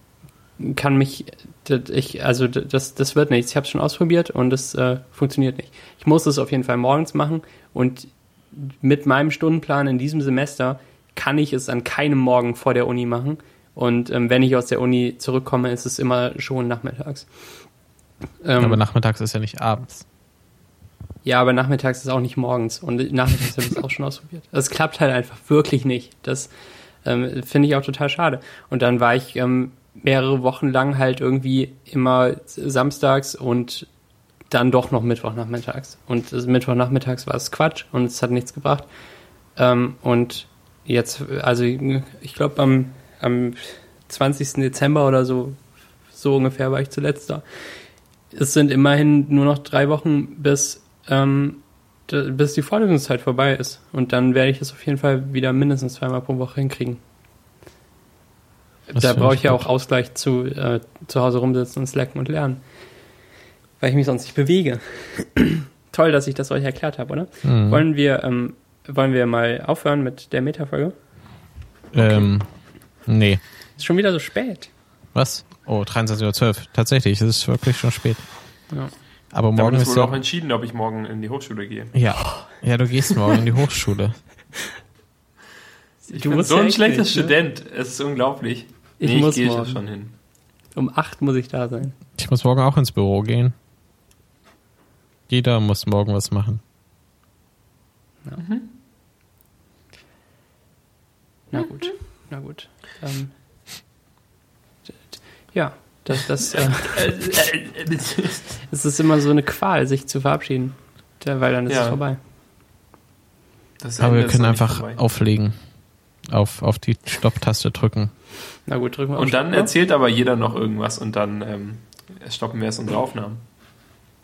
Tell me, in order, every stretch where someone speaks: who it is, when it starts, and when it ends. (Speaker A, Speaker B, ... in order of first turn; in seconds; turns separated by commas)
Speaker A: 0.6-17.3, Speaker A: 18.4-18.8, Speaker B: 18.6-20.0, Speaker A: 21.2-26.5, Speaker A: 27.0-33.9, Speaker A: 34.5-38.9, Speaker A: 39.5-45.6, Speaker A: 46.1-47.4, Speaker A: 48.3-57.0, Speaker A: 58.9-62.6, Speaker B: 59.0-59.6, Speaker A: 63.8-70.9, Speaker B: 67.4-67.8, Speaker B: 71.9-72.5, Speaker B: 73.0-73.4, Speaker A: 73.8-74.7, Speaker B: 75.1-78.2, Speaker B: 79.3-80.2, Speaker C: 79.5-82.0, Speaker B: 81.9-84.1, Speaker A: 86.0-87.3, Speaker C: 86.1-90.1, Speaker A: 89.0-89.8, Speaker A: 90.8-92.0, Speaker B: 92.2-93.5, Speaker B: 95.3-96.6, Speaker C: 98.3-98.7, Speaker A: 101.5-103.3, Speaker A: 105.5-107.1, Speaker C: 106.8-108.5, Speaker A: 108.7-112.2, Speaker C: 111.7-112.0, Speaker C: 113.8-115.0, Speaker B: 114.0-115.5, Speaker B: 116.3-118.1, Speaker A: 118.7-119.7, Speaker C: 119.2-123.4